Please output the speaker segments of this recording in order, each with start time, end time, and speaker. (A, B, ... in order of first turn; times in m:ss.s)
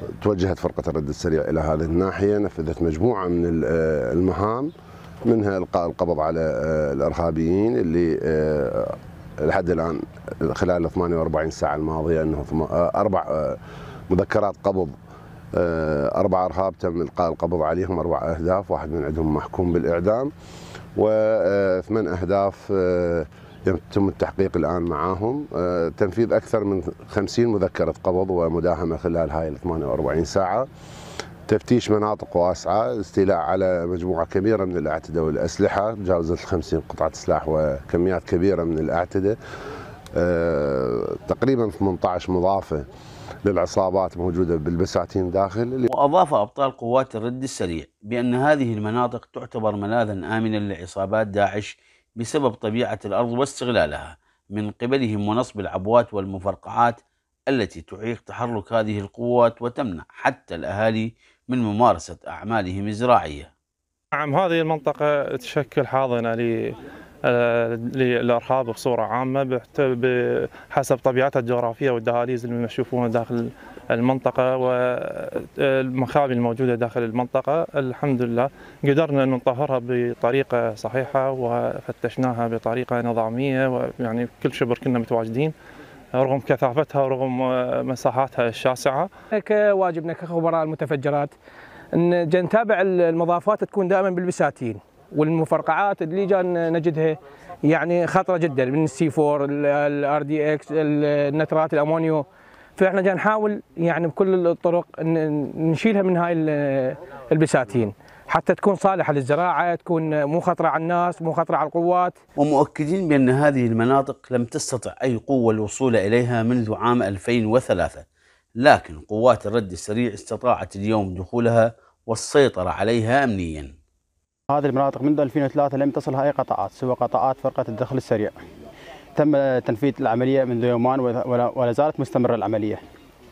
0:00.2-0:04.7 A
0:05.2-0:13.6 A
0:14.1-0:14.9 A
0:15.5-0:20.3 A
0:21.0-0:30.7 A
0:31.5-0:39.4 A
0:40.2-0:42.9 A
0:43.4-0:45.9 A
0:45.9-1:03.5 B
1:04.2-1:25.5 C
1:26.2-1:29.1 C
1:29.3-1:31.3 D
1:32.0-1:42.2 D
1:42.8-1:52.2 D
1:52.4-1:58.0 B
1:58.6-2:03.7 B
2:04.5-2:08.4 E
2:09.2-2:12.8 E